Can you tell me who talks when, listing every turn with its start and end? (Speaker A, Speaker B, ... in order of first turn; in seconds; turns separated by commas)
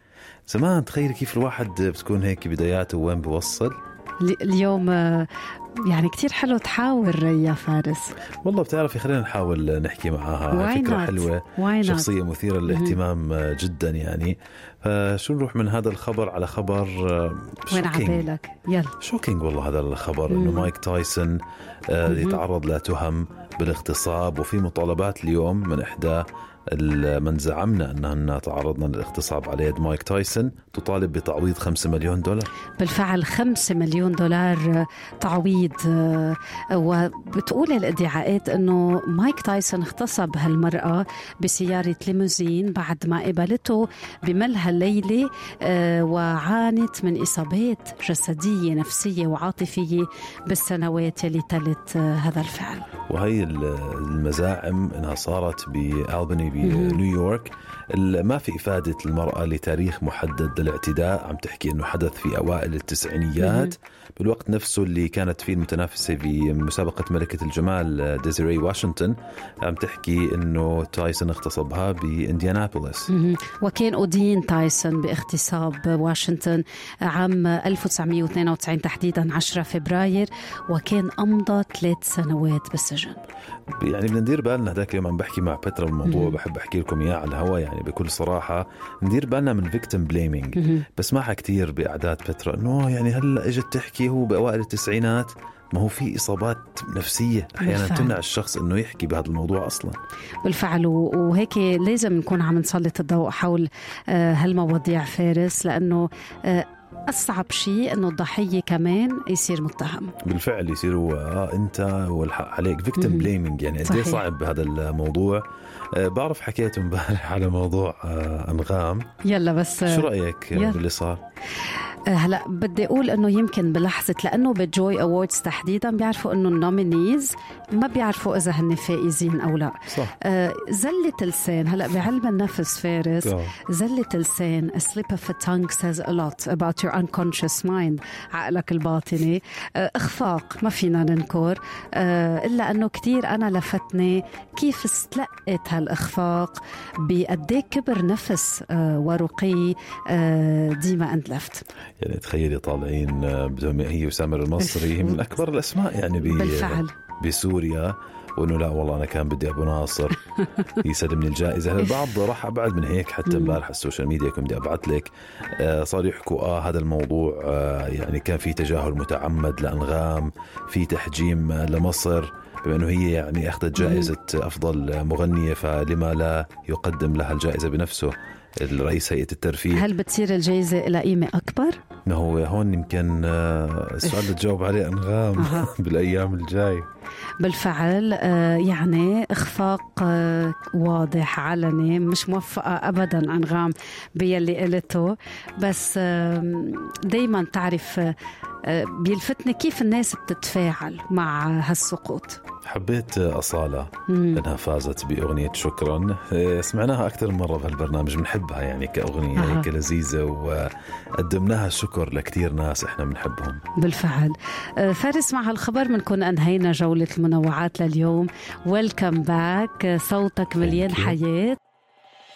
Speaker A: 0.5-3.7, Speaker B: 4.2-5.3, Speaker B: 5.8-8.1, Speaker A: 8.4-18.3, Speaker B: 10.5-12.1, Speaker B: 12.7-13.0, Speaker B: 17.7-18.9, Speaker A: 19.0-21.4, Speaker B: 20.3-20.7, Speaker A: 21.9-32.5, Speaker B: 22.1-22.4, Speaker B: 32.8-52.9, Speaker A: 53.1-73.1, Speaker B: 56.6-57.0, Speaker B: 63.4-63.7, Speaker B: 73.1-83.2, Speaker A: 83.8-100.0, Speaker B: 86.0-86.4, Speaker B: 90.5-90.9, Speaker B: 97.6-98.2, Speaker B: 100.4-110.1, Speaker A: 110.2-119.1, Speaker B: 113.0-113.3, Speaker B: 113.8-114.2, Speaker B: 119.2-120.8, Speaker A: 119.9-121.2, Speaker B: 122.1-151.6, Speaker A: 129.9-130.2, Speaker A: 133.2-133.5, Speaker A: 152.0-160.2, Speaker B: 154.6-155.2, Speaker B: 156.2-156.9, Speaker A: 160.8-179.9, Speaker B: 163.3-163.6, Speaker B: 173.8-174.1, Speaker B: 179.7-181.8, Speaker A: 182.1-186.9, Speaker B: 184.1-184.3, Speaker B: 185.4-185.7, Speaker B: 187.4-198.1, Speaker B: 198.6-202.4, Speaker A: 202.7-213.6, Speaker B: 204.1-204.4, Speaker B: 209.3-209.7, Speaker B: 213.8-221.6, Speaker A: 220.6-221.2